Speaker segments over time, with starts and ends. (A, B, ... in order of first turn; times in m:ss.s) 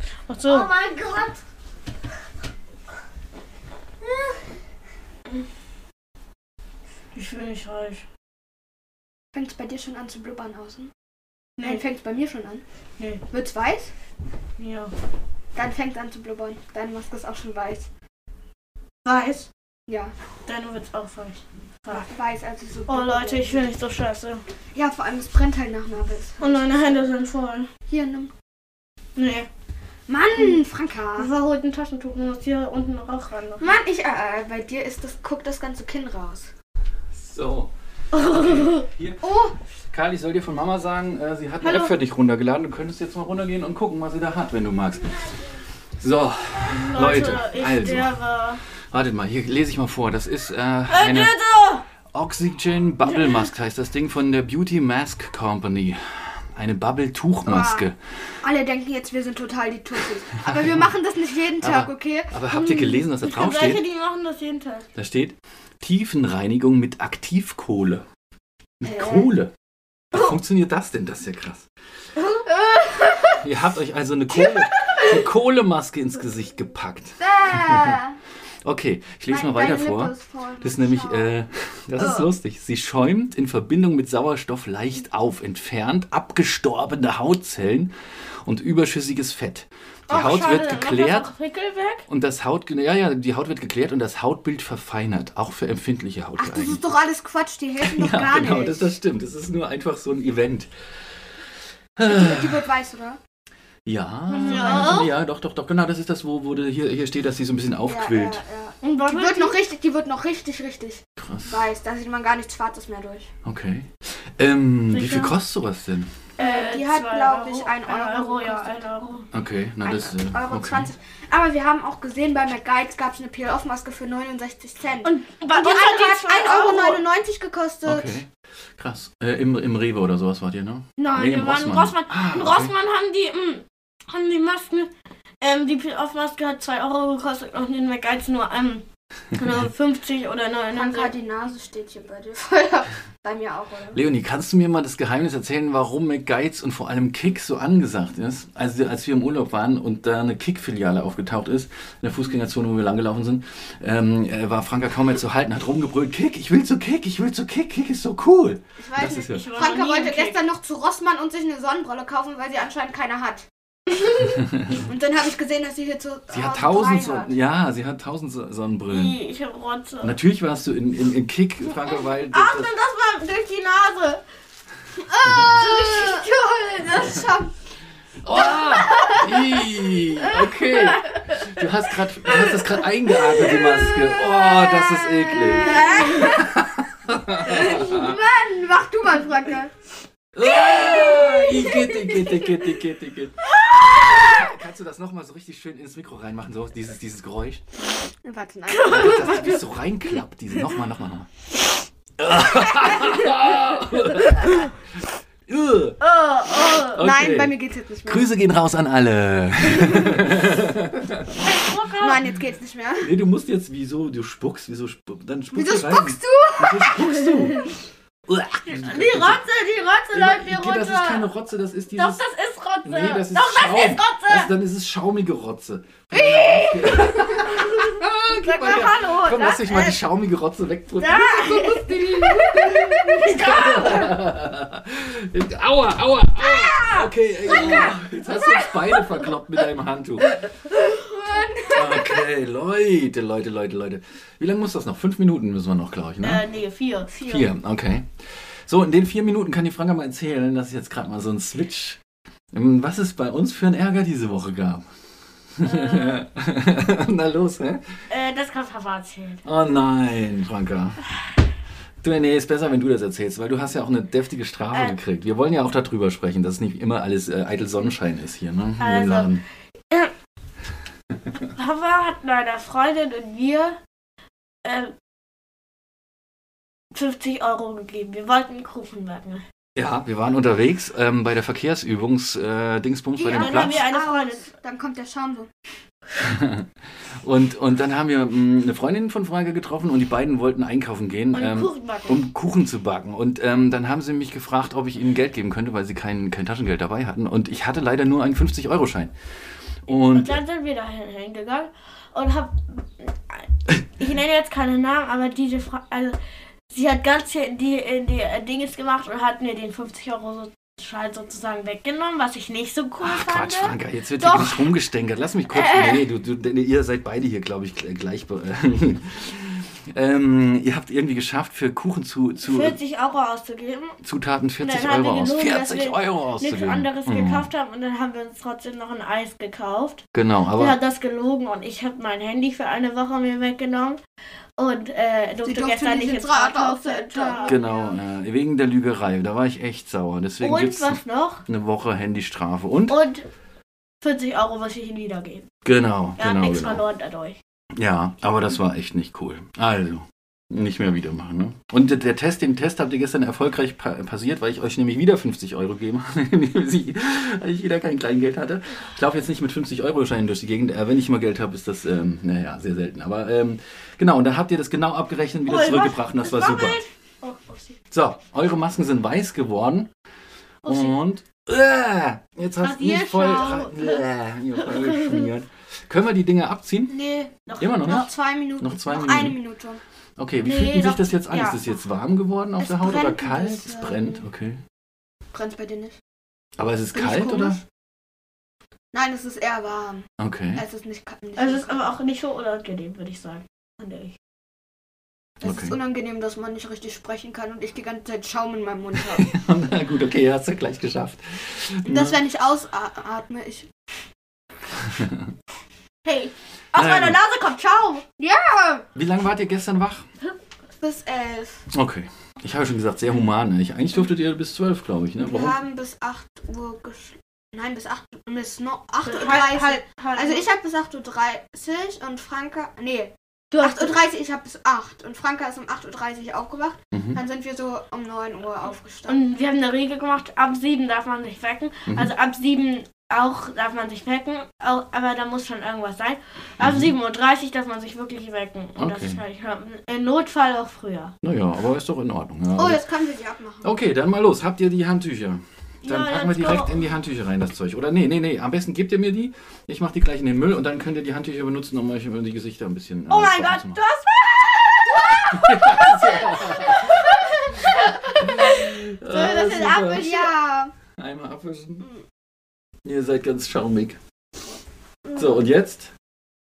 0:00.3-0:00.8 A
0:00.5-0:01.4 B
0:07.2-0:08.0 A
0:09.3-0:10.9 B
0:11.6-0:11.8 A
0:11.6-0:12.6 B
0:13.3-0:13.9 B
0:14.6-0:14.9 A
0:15.6-0:17.9 B
0:19.0-0:19.5 A
0:19.9-0:20.1 B
0:20.5-0:22.1 A
0:21.9-0:23.7 B
0:22.9-0:24.4 A
0:24.8-0:27.1 B
0:26.4-0:27.7 A
0:27.9-0:28.3 B
0:29.2-0:29.5 A
0:30.1-0:31.3 B
0:31.2-0:33.7 A
0:33.6-0:36.5 B
0:37.1-0:39.2 C
0:38.1-0:38.9 A
0:39.2-0:39.6 B
0:39.9-0:45.3 C
0:41.6-0:41.9 A
0:46.0-0:48.2 C
0:46.6-0:48.6 A
0:48.9-0:51.3 C
0:50.9-0:51.8 A
0:52.1-0:58.0 C
0:57.5-0:57.9 B
0:58.4-1:02.3 B
1:00.5-1:00.9 C
1:01.6-1:03.8 C
1:02.5-1:04.9 A
1:05.0-1:08.0 C
1:08.8-1:09.5 C
1:08.8-1:09.3 B
1:10.1-1:11.7 C
1:12.2-1:13.4 B
1:13.4-1:18.0 C
1:14.8-1:15.1 B
1:17.2-1:18.2 B
1:18.6-1:27.9 C
1:19.3-1:21.4 B
1:22.0-1:22.3 B
1:28.4-1:31.3 C
1:30.1-1:32.0 A
1:32.1-1:36.8 C
1:36.4-1:38.9 B
1:37.8-1:40.7 C
1:42.0-1:42.7 C
1:42.0-1:43.2 B
1:43.8-1:48.4 C
1:44.3-1:45.1 A
1:44.4-1:45.1 B
1:47.9-1:53.3 B
1:48.8-1:49.6 A
1:51.2-1:51.6 C
1:53.4-1:56.2 C
1:54.9-1:55.3 A
1:56.4-1:59.1 B
1:56.4-1:59.3 A
1:59.3-2:00.9 C
1:59.8-2:08.2 B
2:05.0-2:07.0 A
2:07.8-2:12.7 C
2:11.0-2:14.9 A
2:15.4-2:21.1 A
2:20.7-2:24.0 B
2:23.9-2:39.5 C
2:38.8-2:43.5 B
2:39.1-2:40.4 A
2:44.4-2:44.8 C
2:44.7-2:47.3 B
2:46.3-2:49.2 C
2:48.9-2:50.2 A
2:50.0-2:52.7 C
2:52.3-2:54.2 A
2:55.0-2:57.5 B
2:55.5-2:56.3 A
2:58.2-3:08.2 C
2:58.8-2:59.3 A
2:58.9-2:59.3 B
3:00.7-3:01.4 A
3:03.6-3:06.5 B
3:05.6-3:06.4 A
3:07.4-3:09.7 B
3:10.3-3:17.6 C
3:10.6-3:12.2 A
3:18.2-3:19.6 B
3:18.7-3:19.6 A
3:18.8-3:21.3 C
3:22.2-3:26.0 C
3:26.0-3:27.0 A
3:26.8-3:31.5 C
3:26.9-3:28.3 B
3:31.4-3:32.2 A
3:32.0-3:33.2 B
3:33.0-3:37.6 C
3:35.5-3:37.7 B
3:38.3-3:39.4 C
3:38.7-3:41.3 A
3:40.1-3:42.2 C
3:42.0-3:44.5 A
3:42.8-3:51.6 C
3:46.1-3:47.8 B
3:48.3-3:49.6 B
3:48.5-3:49.9 A
3:51.0-3:54.0 A
3:51.3-3:53.3 B
3:52.4-4:00.4 C
3:56.4-3:57.9 A
4:00.8-4:02.2 B
4:01.7-4:06.4 C
4:06.2-4:07.3 A
4:07.2-4:07.4 B
4:07.2-4:12.0 C
4:12.5-4:14.9 C
4:15.6-4:17.9 C
4:15.6-4:16.2 A
4:18.1-4:19.4 A
4:19.4-4:21.0 C
4:22.0-4:29.4 C
4:28.8-4:29.3 A
4:31.5-4:33.8 A
4:34.6-4:34.9 A
4:36.9-4:39.4 A
4:39.8-4:43.8 C
4:43.2-4:45.5 B
4:43.3-4:44.5 A
4:46.2-4:59.1 C
4:51.3-4:52.2 A
4:59.9-5:00.4 C
4:59.9-5:03.5 A
5:04.0-5:06.2 A
5:06.7-5:14.7 A
5:13.0-5:22.8 C
5:15.5-5:16.0 A
5:22.4-5:24.0 A
5:24.0-5:27.5 C
5:24.6-5:30.0 A
5:30.1-5:30.8 C
5:30.6-5:34.0 A
5:34.6-5:37.7 A
5:35.4-5:38.0 B
5:37.5-5:43.0 C
5:40.4-5:41.4 A
5:42.9-5:43.3 A
5:44.0-5:45.5 A
5:45.6-5:46.8 C
5:46.2-5:47.4 A
5:47.7-6:06.8 C
6:05.5-6:07.8 A
6:07.9-6:09.9 C
6:10.6-6:11.0 A
6:10.6-6:16.9 C
6:12.6-6:14.0 A
6:14.6-6:15.3 A
6:16.9-6:18.1 A
6:17.6-6:18.1 C
6:17.9-6:19.8 B
6:18.6-6:19.4 C
6:20.2-6:24.6 C
6:20.4-6:21.6 A
6:22.6-6:24.2 B
6:25.3-6:26.0 B
6:26.6-6:27.6 C
6:26.9-6:27.6 B
6:28.9-6:31.8 B
6:30.2-6:30.6 C
6:31.4-6:34.1 A
6:35.4-6:35.8 C
6:35.4-6:39.3 B
6:39.2-6:42.2 C
6:41.9-6:43.7 B
6:44.8-6:45.3 C
6:46.0-6:48.0 A
6:46.7-6:47.2 C
6:48.2-6:48.8 B
6:49.0-6:50.1 C
6:50.8-6:51.6 B
6:51.7-6:55.6 C
6:55.2-7:09.2 B
6:59.0-7:00.4 A
7:03.5-7:04.0 A
7:06.9-7:07.2 C
7:09.1-7:21.1 A
7:11.9-7:12.1 C
7:16.6-7:16.9 C
7:18.8-7:19.2 C
7:21.2-7:22.8 C
7:22.6-7:23.8 B
7:23.6-7:33.8 C
7:25.8-7:26.8 A
7:33.1-7:40.3 A
7:35.3-7:37.1 C
7:38.2-7:40.3 C
7:39.8-7:40.7 B
7:41.0-7:41.9 C
7:42.8-7:44.0 C
7:45.2-7:45.9 C